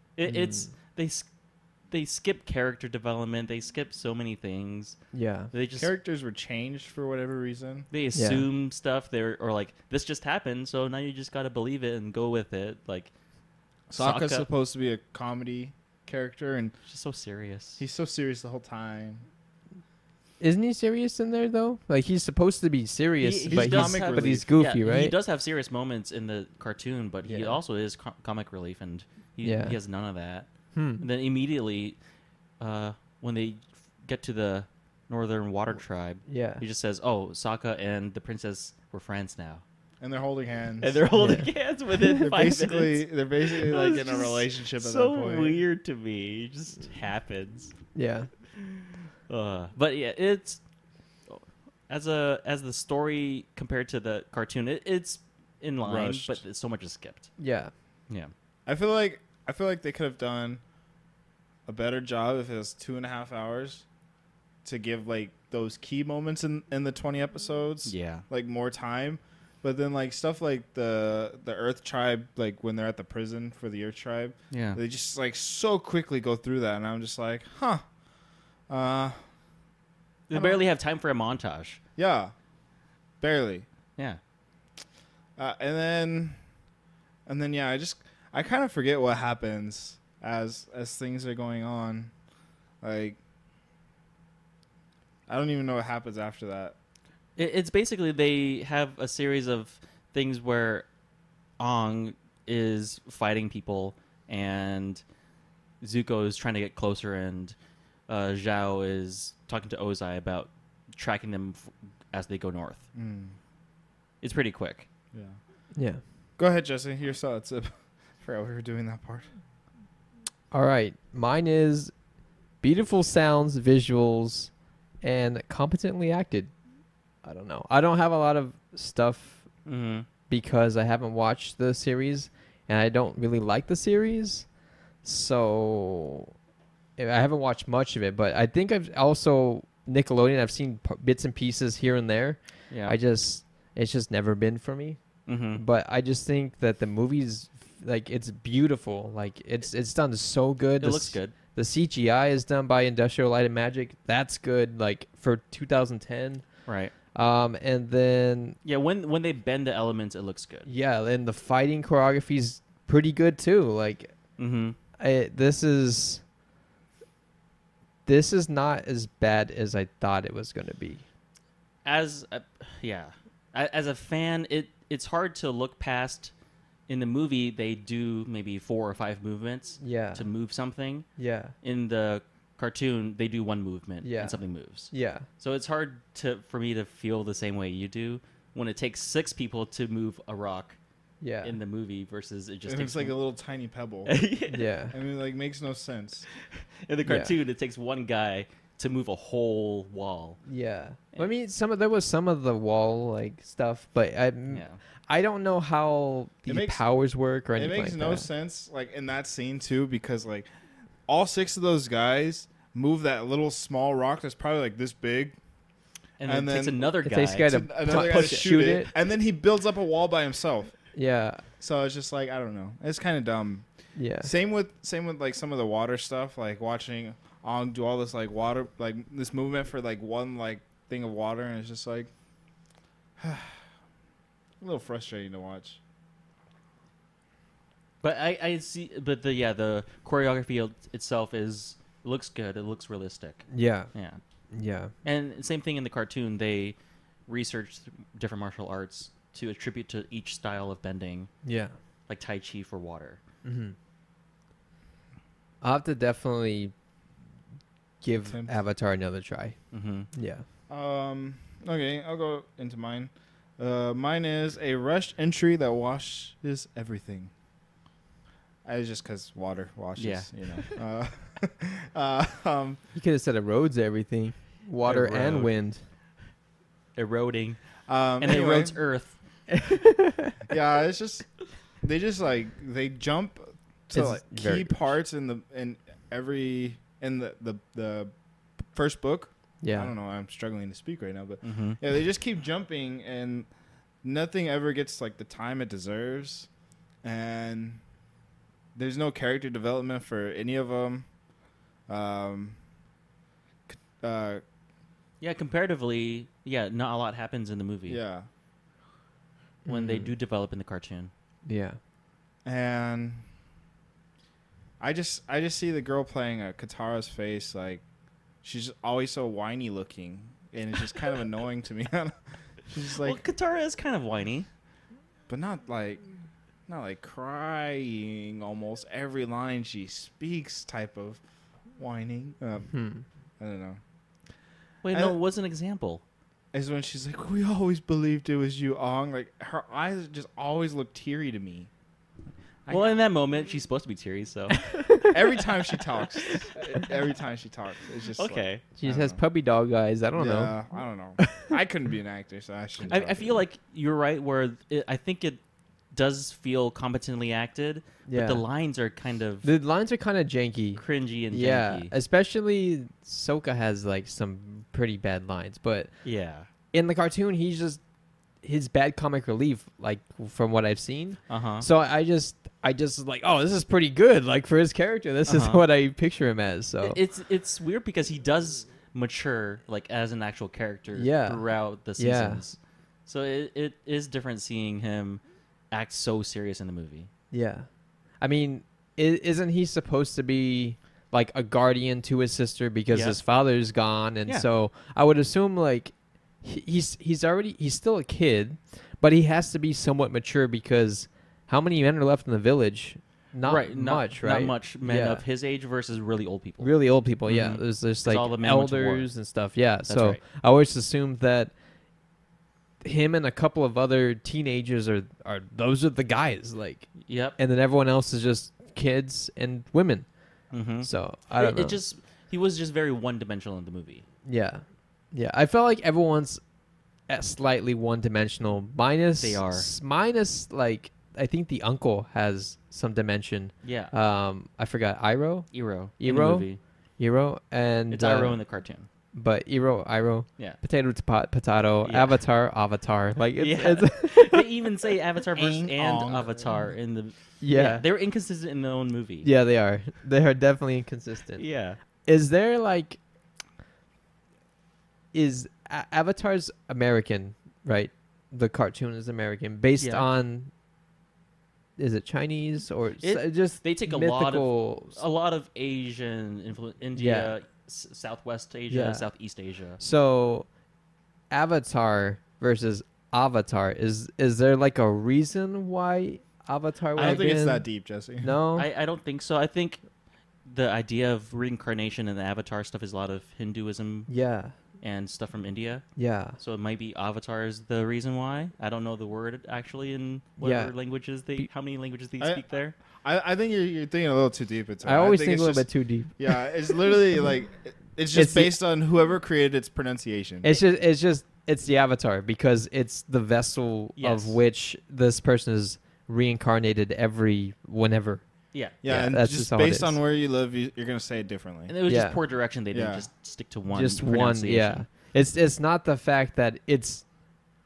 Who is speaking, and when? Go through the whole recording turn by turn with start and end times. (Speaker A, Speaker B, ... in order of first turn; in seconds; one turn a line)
Speaker A: 0.2-1.3
Speaker B: 0.3-0.7
Speaker A: 1.9-5.0
Speaker B: 5.1-5.5
Speaker A: 5.5-5.9
Speaker C: 5.8-7.9
Speaker A: 7.9-13.1
Speaker B: 8.2-8.5
Speaker A: 13.9-14.5
Speaker C: 13.9-16.8
Speaker A: 16.9-17.8
Speaker C: 17.8-19.2
Speaker B: 20.4-25.2
Speaker A: 23.2-32.0
Speaker C: 23.5-24.5
Speaker B: 27.2-27.6
Speaker B: 29.4-29.8
Speaker B: 30.7-31.1
Speaker A: 32.6-39.6
Speaker B: 36.3-36.6
Speaker C: 40.0-41.0
Speaker A: 40.8-47.7
Speaker B: 41.1-41.5
Speaker C: 42.2-45.6
Speaker B: 47.9-48.3
Speaker A: 49.3-50.6
Speaker A: 51.3-57.3
Speaker C: 55.8-56.4
Speaker B: 57.4-57.7
Speaker C: 58.7-60.6
Speaker C: 61.7-63.9
Speaker C: 64.6-77.8
Speaker A: 67.9-68.2
Speaker A: 74.5-74.8
Speaker C: 78.7-79.2
Speaker A: 80.3-81.8
Speaker C: 80.3-80.6
Speaker C: 82.0-82.3
Speaker C: 83.2-83.7
Speaker C: 85.4-86.4
Speaker C: 87.3-92.1
Speaker C: 92.8-93.2
Speaker C: 95.3-96.8
Speaker A: 97.4-100.9
Speaker A: 101.6-105.0
Speaker A: 105.8-107.5
Speaker A: 108.1-112.8
Speaker C: 113.0-113.4
Speaker A: 114.2-114.9
Speaker B: 115.8-116.0
Speaker C: 116.4-119.3
Speaker B: 120.5-121.9
Speaker B: 122.6-124.5
Speaker B: 125.0-126.5
Speaker B: 127.2-129.4
Speaker A: 129.7-130.1
Speaker B: 130.3-134.5
Speaker B: 135.0-136.3
Speaker B: 137.0-145.0
Speaker A: 142.7-143.0
Speaker A: 145.3-145.6
Speaker B: 145.5-156.4
Speaker A: 150.8-151.3
Speaker A: 156.7-156.9
Speaker B: 157.1-158.6
Speaker A: 158.7-160.7
Speaker B: 160.7-164.2
Speaker A: 164.4-164.8
Speaker B: 165.0-166.2
Speaker B: 168.1-171.0
Speaker A: 171.8-176.3
Speaker A: 176.9-181.1
Speaker B: 179.8-180.3
Speaker B: 181.2-181.5
Speaker A: 181.6-190.8
Speaker B: 184.0-184.4
Speaker B: 184.9-185.3
Speaker B: 191.2-191.6
Speaker A: 191.4-193.2
Speaker C: 192.7-194.2
Speaker A: 194.1-194.7
Speaker B: 194.5-194.9
Speaker C: 194.9-196.3
Speaker A: 196.8-200.4
Speaker B: 197.1-197.3
Speaker B: 200.5-208.3
Speaker A: 204.5-204.8
Speaker C: 206.5-206.8
Speaker C: 207.6-210.5
Speaker C: 211.1-215.4
Speaker A: 216.2-218.8
Speaker C: 216.2-216.9
Speaker B: 217.0-218.9
Speaker C: 217.5-220.7
Speaker B: 220.9-221.4
Speaker C: 221.6-223.7
Speaker B: 223.9-224.3
Speaker C: 224.2-232.1
Speaker C: 233.2-233.6
Speaker C: 234.6-235.8
Speaker A: 238.0-244.2
Speaker B: 243.5-243.9
Speaker B: 244.5-244.9
Speaker A: 245.0-246.8
Speaker A: 247.3-251.3
Speaker B: 251.4-251.7
Speaker A: 252.1-253.2
Speaker B: 253.4-253.8
Speaker B: 255.6-256.7
Speaker B: 258.0-259.6
Speaker C: 258.3-258.6
Speaker A: 259.7-260.1
Speaker B: 260.1-260.4
Speaker C: 260.7-267.3
Speaker C: 268.6-272.8
Speaker A: 270.0-270.7
Speaker B: 272.9-275.8
Speaker A: 274.8-275.5
Speaker A: 277.0-277.6
Speaker C: 277.9-278.8
Speaker A: 278.2-279.1
Speaker B: 279.5-280.4
Speaker C: 280.5-281.3
Speaker C: 281.8-288.1
Speaker B: 283.9-284.9
Speaker C: 288.7-293.5
Speaker B: 289.6-289.9
Speaker A: 291.4-291.8
Speaker C: 294.0-296.5
Speaker C: 297.0-297.8
Speaker C: 298.8-301.1
Speaker C: 301.9-302.6
Speaker C: 303.7-304.4
Speaker A: 305.2-308.0
Speaker C: 307.9-308.3
Speaker B: 309.6-310.1
Speaker A: 309.7-311.1
Speaker B: 311.4-311.8
Speaker C: 312.4-313.2
Speaker C: 314.8-317.8
Speaker C: 318.4-323.2
Speaker A: 323.0-324.5
Speaker C: 325.3-326.0
Speaker C: 326.7-331.2
Speaker C: 331.8-332.7
Speaker B: 332.7-333.0
Speaker C: 333.4-333.8
Speaker A: 334.8-336.0
Speaker C: 334.9-335.2
Speaker C: 336.5-341.7
Speaker A: 342.7-345.1
Speaker B: 344.7-345.1
Speaker C: 345.1-349.2
Speaker A: 348.2-348.6
Speaker B: 348.8-350.6
Speaker C: 350.1-353.4
Speaker B: 351.2-351.5
Speaker A: 352.9-355.4
Speaker A: 355.9-359.5
Speaker B: 358.1-358.4
Speaker B: 359.4-365.9
Speaker A: 360.8-361.9
Speaker A: 366.0-366.5
Speaker B: 366.7-367.8
Speaker B: 368.4-377.0
Speaker A: 371.3-371.7
Speaker A: 375.3-375.6
Speaker A: 376.8-387.1
Speaker B: 380.9-381.4
Speaker B: 382.0-382.4
Speaker B: 387.3-387.7
Speaker B: 388.2-405.2
Speaker A: 392.9-393.2
Speaker A: 403.4-406.7
Speaker B: 406.6-411.5
Speaker A: 407.2-409.1
Speaker A: 409.9-410.2
Speaker B: 412.8-420.1
Speaker A: 417.0-417.4
Speaker A: 420.5-424.1
Speaker B: 420.8-421.8
Speaker B: 424.2-426.4
Speaker B: 427.1-435.5
Speaker A: 429.2-429.7
Speaker A: 433.6-433.9
Speaker A: 435.5-436.6
Speaker B: 436.0-438.4
Speaker A: 437.9-438.9
Speaker B: 439.1-444.5
Speaker A: 441.9-442.2
Speaker A: 443.4-449.3
Speaker C: 445.4-446.5
Speaker B: 447.4-447.9
Speaker B: 449.2-451.4
Speaker A: 451.4-451.8
Speaker B: 452.1-453.0
Speaker B: 455.1-460.5
Speaker A: 459.8-460.1
Speaker B: 461.8-465.0
Speaker A: 463.0-469.8
Speaker B: 466.9-467.4
Speaker B: 468.7-469.1
Speaker B: 469.8-470.5
Speaker B: 471.3-477.7
Speaker A: 477.0-477.3
Speaker C: 477.0-478.4
Speaker B: 478.2-478.7
Speaker A: 478.6-479.8
Speaker A: 480.4-484.1
Speaker B: 484.1-484.6
Speaker A: 484.8-485.9
Speaker B: 486.0-486.4
Speaker A: 486.4-492.8
Speaker B: 490.4-490.7
Speaker C: 492.2-500.5
Speaker B: 494.8-496.5
Speaker B: 498.1-498.6
Speaker B: 500.4-508.2
Speaker A: 504.0-504.4
Speaker B: 508.8-510.0
Speaker C: 508.8-511.7
Speaker A: 511.7-514.8
Speaker B: 511.9-512.2
Speaker C: 512.7-513.1
Speaker B: 513.7-517.0